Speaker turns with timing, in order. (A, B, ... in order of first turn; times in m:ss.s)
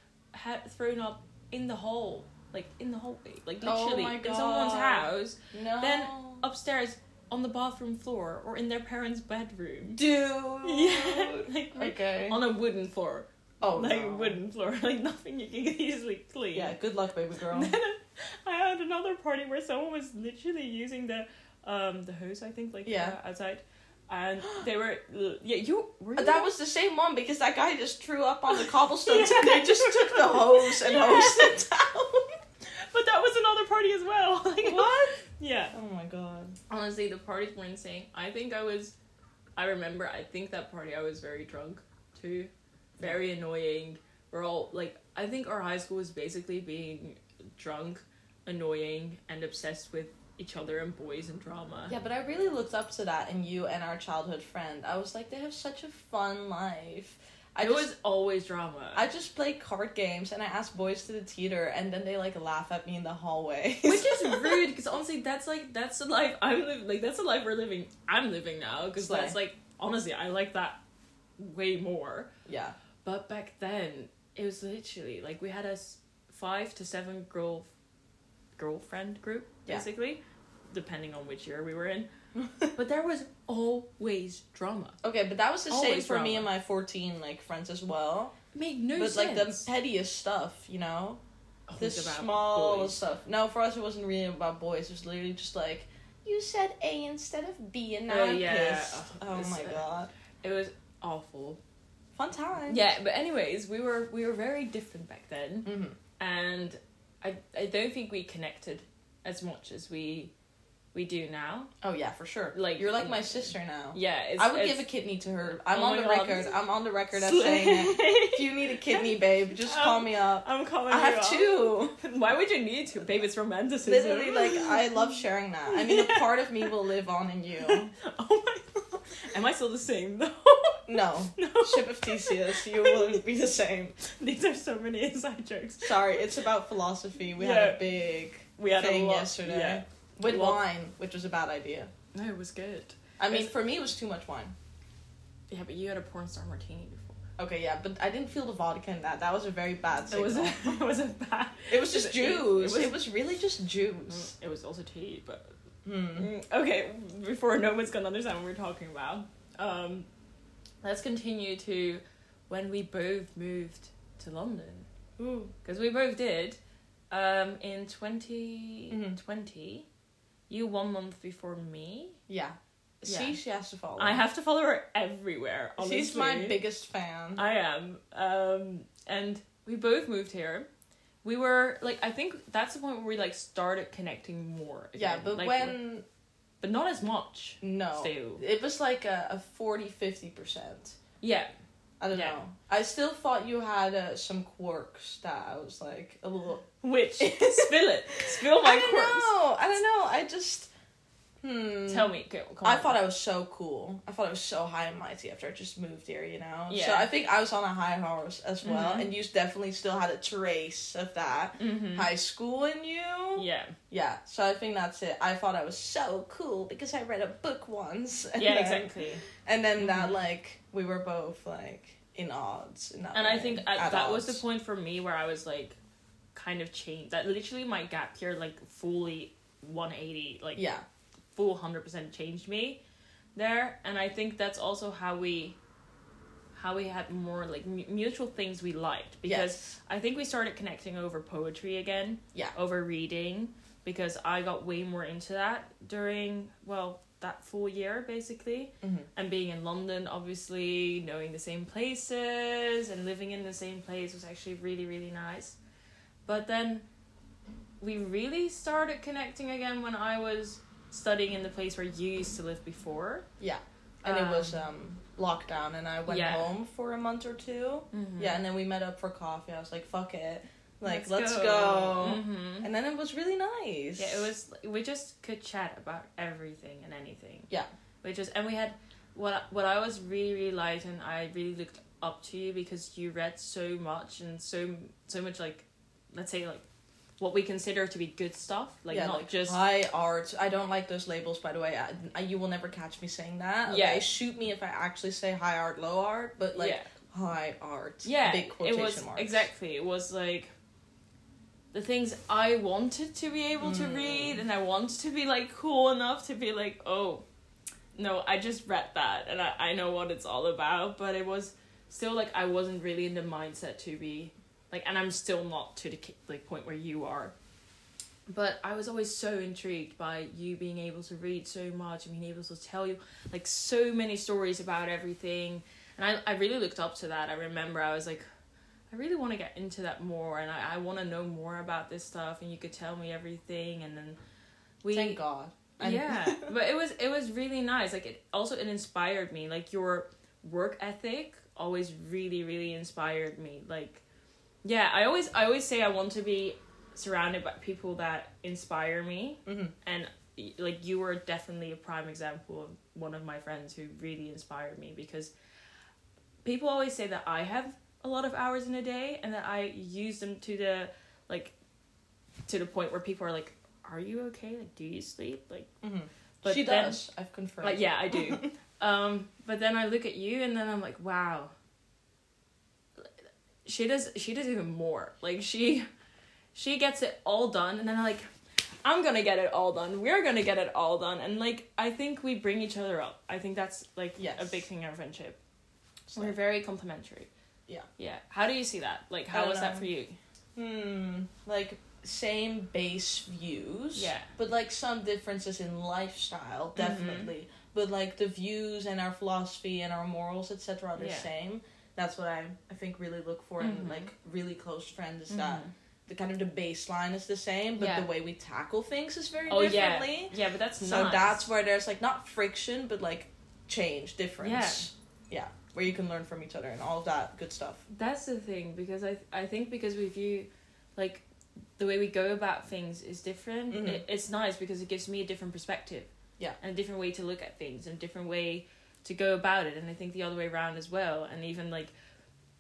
0:00.3-0:10.0 A
0:03.6-0:06.4 B
0:10.0-0:12.4 B
0:10.6-0:16.7 A
0:13.6-0:14.4 B
0:16.5-0:17.7 B
0:17.5-0:26.5 A
0:22.8-0:23.2 B
0:26.2-0:32.4 B
0:28.5-0:31.6 A
0:32.9-0:35.7 A
0:34.6-0:35.1 B
0:35.7-0:36.6 B
0:36.7-0:38.9 A
0:39.6-0:51.9 A
0:51.9-0:57.9 B
0:57.6-0:59.0 A
0:58.9-1:04.6 B
1:03.8-1:10.8 A
1:09.0-1:09.4 B
1:11.4-1:12.3 A
1:12.4-1:12.7 B
1:13.0-1:17.7 A
1:18.6-1:20.2 A
1:20.7-1:22.1 A
1:22.3-1:22.7 B
1:22.7-1:25.0 A
1:25.0-1:28.3 B
1:25.7-1:26.5 A
1:28.5-1:29.6 A
1:28.9-1:31.2 B
1:31.7-1:33.0 A
1:31.8-1:40.1 B
1:38.1-1:39.9 A
1:40.4-1:41.6 A
1:42.1-1:42.8 B
1:42.7-1:50.3 A
1:45.6-1:46.0 B
1:50.9-1:51.7 A
1:51.8-2:01.9 B
1:52.5-1:54.9 A
1:55.5-1:56.5 A
1:57.1-2:05.1 A
2:03.8-2:07.9 B
2:05.7-2:06.7 A
2:07.6-2:13.2 A
2:10.9-2:13.9 B
2:14.0-2:16.3 A
2:15.8-2:21.9 B
2:17.4-2:17.8 A
2:18.6-2:20.6 A
2:22.1-2:23.5 A
2:23.2-2:24.5 B
2:25.5-2:27.2 A
2:27.4-2:30.8 B
2:30.1-2:33.0 A
2:31.7-2:34.3 B
2:34.1-2:35.5 A
2:35.8-2:36.3 B
2:36.1-2:40.1 A
2:40.8-2:44.9 A
2:45.2-2:45.5 B
2:45.6-2:46.6 A
2:47.1-2:49.9 A
2:48.9-2:49.2 B
2:50.5-2:52.2 A
2:52.3-2:54.2 B
2:53.1-2:53.4 A
2:54.0-2:56.6 A
2:55.8-2:57.4 B
2:57.4-3:00.7 A
3:01.2-3:05.8 A
3:05.0-3:06.0 B
3:06.6-3:08.4 A
3:07.6-3:11.0 B
3:11.2-3:11.5 A
3:12.0-3:16.7 B
3:12.1-3:12.4 A
3:16.8-3:19.3 A
3:17.2-3:17.7 B
3:18.3-3:20.7 B
3:21.4-3:22.1 B
3:21.9-3:23.0 A
3:22.6-3:44.4 B
3:26.7-3:27.1 A
3:28.6-3:29.1 A
3:31.6-3:32.1 A
3:33.4-3:33.8 A
3:38.4-3:39.2 A
3:39.8-3:40.1 A
3:43.1-3:45.8 A
3:46.3-3:50.6 A
3:50.6-3:50.8 B
3:51.4-3:52.8 A
3:53.4-3:55.6 A
3:56.5-4:15.6 A
3:59.2-3:59.7 B
4:08.8-4:09.1 B
4:16.2-4:16.8 A
4:17.8-4:23.2 A
4:23.4-4:34.3 B
4:24.0-4:24.6 A
4:26.1-4:26.5 A
4:27.9-4:28.4 A
4:30.8-4:32.7 A
4:34.0-4:37.5 A
4:38.0-4:46.6 A
4:47.2-4:49.6 A
4:48.9-4:59.4 B
4:53.7-4:54.1 A
4:56.5-4:56.9 A
4:58.0-5:00.5 A
5:01.7-5:07.2 A
5:03.6-5:04.4 B
5:07.9-5:17.3 A
5:18.3-5:28.2 A
5:28.9-5:34.2 A
5:34.8-5:35.2 A
5:34.9-5:36.5 B
5:35.8-5:44.0 A
5:44.6-5:55.3 A
5:49.4-5:49.7 B
5:56.4-6:01.5 A
6:02.5-6:05.7 A
6:05.8-6:08.5 B
6:06.4-6:07.0 A
6:07.6-6:11.5 A
6:13.6-6:15.8 A
6:16.5-6:18.3 A
6:18.8-6:25.4 A
6:24.2-6:24.6 B
6:26.1-6:26.4 B
6:26.1-6:27.3 A
6:28.0-6:30.2 A
6:29.3-6:29.9 B
6:30.6-6:57.8 B
6:34.0-6:34.3 A
6:36.8-6:37.3 A
6:41.0-6:41.3 A
6:43.6-6:44.1 A
6:45.3-6:45.7 A
6:47.8-6:48.1 A
6:49.5-6:51.5 A
6:54.4-6:54.9 A
6:57.9-7:01.2 A
7:01.8-7:11.9 A
7:03.7-7:04.0 B